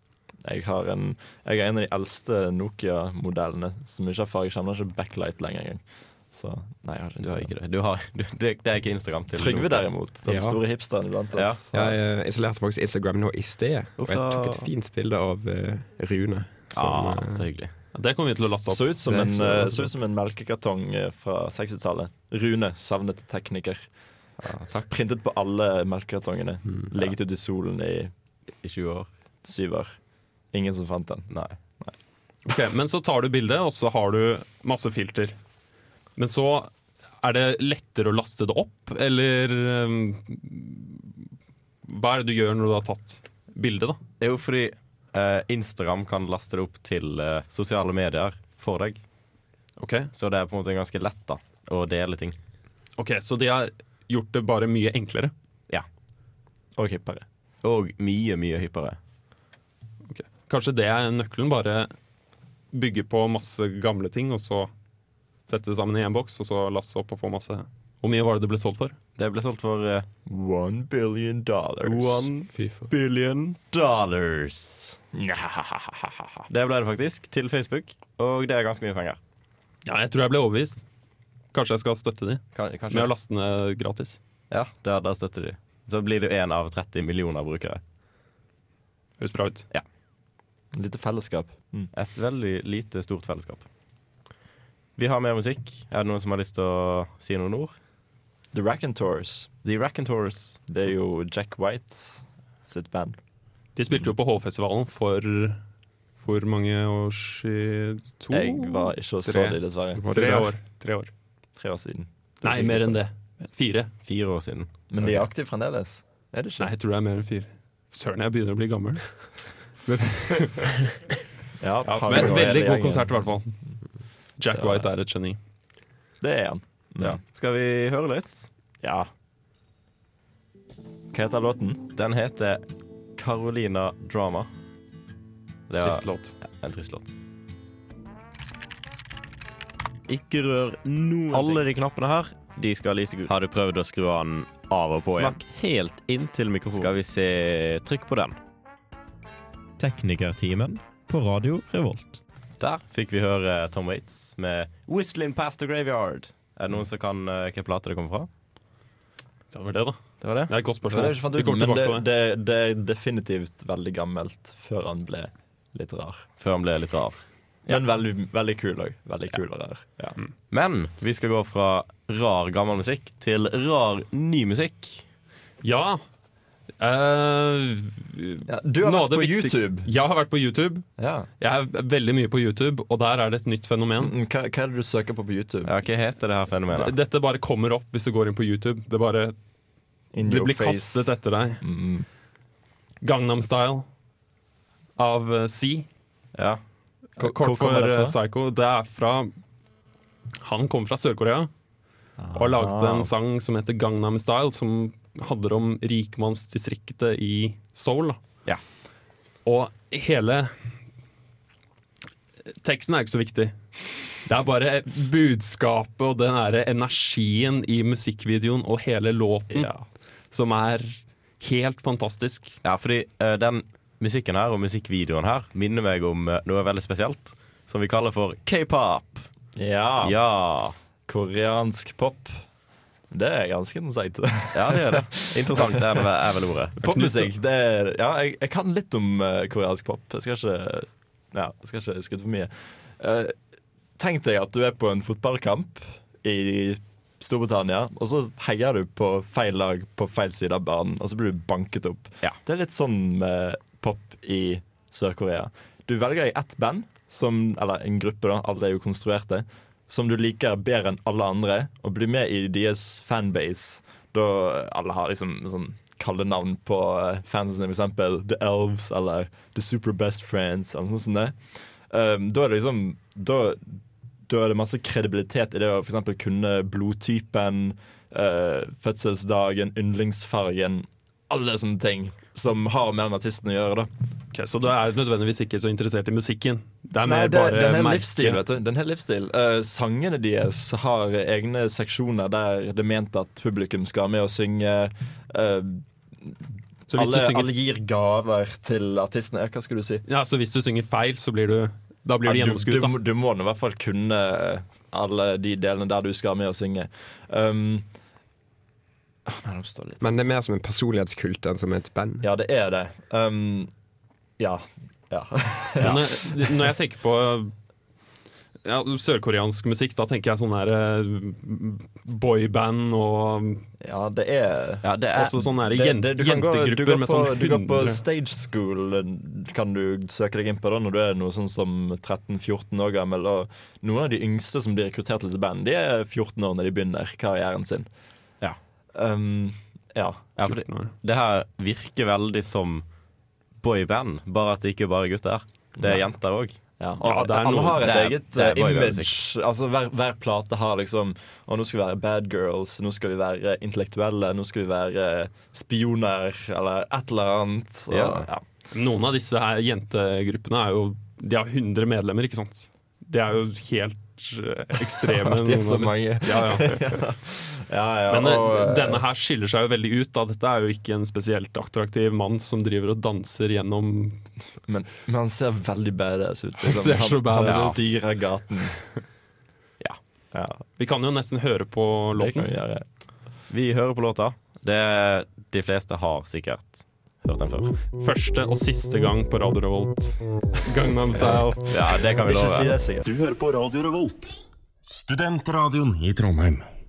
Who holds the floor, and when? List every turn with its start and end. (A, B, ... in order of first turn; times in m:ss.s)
0:00.4-0:07.5 A
0:07.2-0:09.9 B
0:09.3-0:12.0 A
0:10.3-0:10.6 C
0:11.3-0:11.6 B
0:11.7-0:17.5 C
0:14.0-0:14.7 B
0:16.7-0:17.7 B
0:17.9-0:19.7 D
0:18.7-0:23.8 A
0:19.1-0:19.9 C
0:24.4-0:24.8 B
0:24.7-0:28.1 A
0:28.6-0:29.1 B
0:29.4-0:30.0 A
0:30.5-0:31.9 A
0:32.5-0:35.4 D
0:36.2-0:41.1 D
0:41.9-0:44.0 D
0:44.2-0:49.0 B
0:49.8-0:50.1 D
0:50.2-0:52.4 B
0:53.0-0:55.3 D
0:56.8-0:57.2 A
0:57.6-0:59.0 B
1:00.1-1:01.9 D
1:02.7-1:04.7 D
1:05.5-1:09.0 D
1:09.2-1:10.1 B
1:10.3-1:12.3 A
1:11.8-1:15.0 B
1:12.5-1:12.9 C
1:15.1-1:16.4 A
1:16.5-1:19.2 B
1:19.9-1:20.8 D
1:21.5-1:24.2 D
1:22.6-1:23.1 B
1:24.5-1:27.8 B
1:29.2-1:29.7 D
1:30.7-1:31.9 A
1:31.9-1:33.6 B
1:35.0-1:37.8 B
1:38.5-1:39.5 A
1:39.6-1:40.6 B
1:40.7-1:43.2 A
1:43.8-1:45.6 D
1:46.2-1:49.6 D
1:48.3-1:50.1 A
1:49.9-1:50.5 C
1:50.1-1:51.1 D
1:51.6-1:53.0 A
1:52.4-1:53.9 D
1:54.0-1:54.7 B
1:54.9-1:56.7 A
1:56.6-1:59.3 D
1:59.9-2:00.8 D
2:01.6-2:03.2 A
2:01.8-2:03.6 D
2:04.4-2:05.4 D
2:04.6-2:04.8 A
2:06.2-2:07.2 A
2:07.0-2:08.5 B
2:08.8-2:09.1 A
2:11.1-2:11.8 A
2:12.0-2:12.6 B
2:13.2-2:14.5 B
2:15.7-2:17.1 B
2:15.8-2:16.3 D
2:20.1-2:28.4 B
2:29.8-2:38.3 B
2:39.5-2:42.0 D
2:40.2-2:40.5 B
2:40.9-2:46.3 A
2:46.4-2:47.8 B
2:47.7-2:50.2 A
2:50.5-2:55.0 B
2:55.6-2:56.0 D
2:56.8-3:00.9 D
2:58.5-2:59.9 A
3:01.0-3:01.3 A
3:01.4-3:04.1 D
3:04.0-3:05.7 A
3:05.6-3:06.9 B
3:06.7-3:09.4 D
3:10.1-3:12.1 A
3:10.2-3:11.6 D
3:13.0-3:13.9 D
3:15.0-3:15.9 D
3:16.4-3:16.6 B
3:17.2-3:19.3 D
3:17.2-3:18.2 A
3:20.4-3:21.5 D
3:22.2-3:23.0 A
3:22.3-3:28.2 D
3:29.5-3:30.6 D
3:32.6-3:33.6 D
3:34.1-3:39.7 D
3:39.5-3:39.9 A
3:40.3-3:42.6 D
3:42.6-3:49.3 B
3:49.6-3:50.2 A
3:50.0-3:50.8 B
3:51.1-3:52.4 A
3:53.1-3:56.0 A
3:54.5-3:56.8 B
3:56.8-3:57.3 D
3:56.8-4:03.4 A
4:04.0-4:43.9 A
4:44.3-4:48.4 D
4:47.0-5:00.0 A
4:56.9-4:57.5 D
5:00.1-5:03.0 D
5:02.3-5:07.9 A
5:09.3-5:10.1 A
5:10.0-5:12.3 C
5:12.2-5:13.7 A
5:14.4-5:16.5 A
5:15.8-5:17.5 D
5:18.6-5:23.6 D
5:23.8-5:37.9 A
5:24.8-5:25.2 B
5:25.1-5:28.0 D
5:38.9-5:40.3 A
5:40.4-5:42.8 B
5:40.4-5:40.9 D
5:43.6-5:46.6 B
5:45.8-5:46.1 A
5:46.8-5:58.4 A
5:47.0-5:47.8 D
5:47.8-5:49.2 B
5:57.9-5:58.3 B
5:58.7-6:06.8 D
6:05.1-6:09.0 A
6:08.1-6:14.2 D
6:14.7-6:18.8 A
6:16.6-6:17.9 D
6:17.4-6:17.8 B
6:20.3-6:20.6 A
6:20.8-6:22.5 D
6:22.2-6:22.8 A
6:23.5-6:27.8 B
6:28.0-6:31.7 D
6:31.7-6:32.7 B
6:32.0-6:33.1 A
6:33.1-6:36.7 E